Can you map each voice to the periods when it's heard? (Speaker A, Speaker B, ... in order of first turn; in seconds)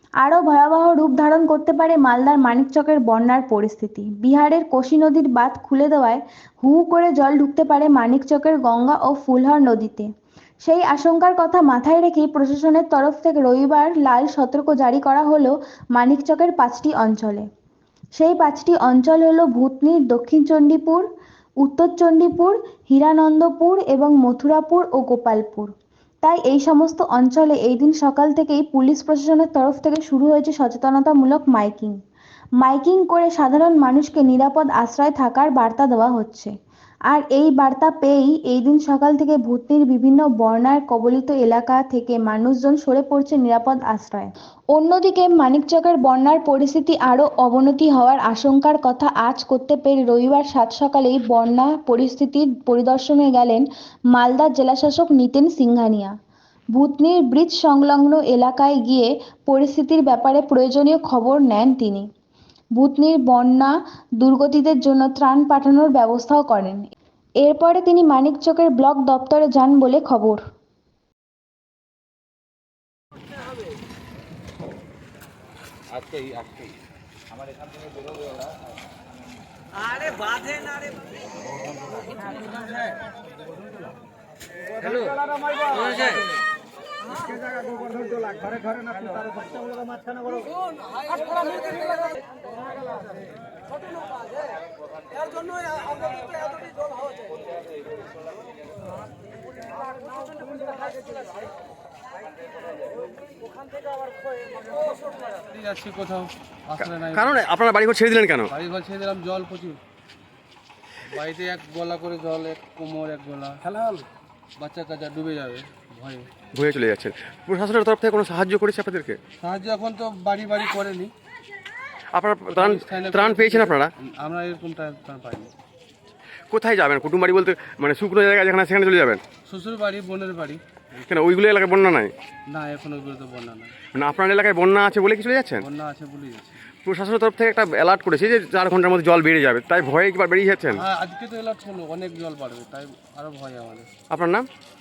Speaker A: 0.2-10.1, 10.6-17.5, 18.2-21.1, 21.6-25.7, 26.2-32.0, 32.6-36.5, 37.1-56.1, 56.7-62.1, 62.8-66.9, 67.4-70.4
Speaker B: 105.5-107.4, 108.5-109.8, 111.1-116.3, 119.4-121.1, 122.5-125.5, 129.5-130.6, 132.5-133.7, 135.6-136.6, 140.8-143.9
Speaker C: 106.8-108.5, 116.5-119.2, 122.2-123.9, 126.5-129.2, 131.0-132.1, 133.9-135.6, 136.8-140.8, 144.1-144.5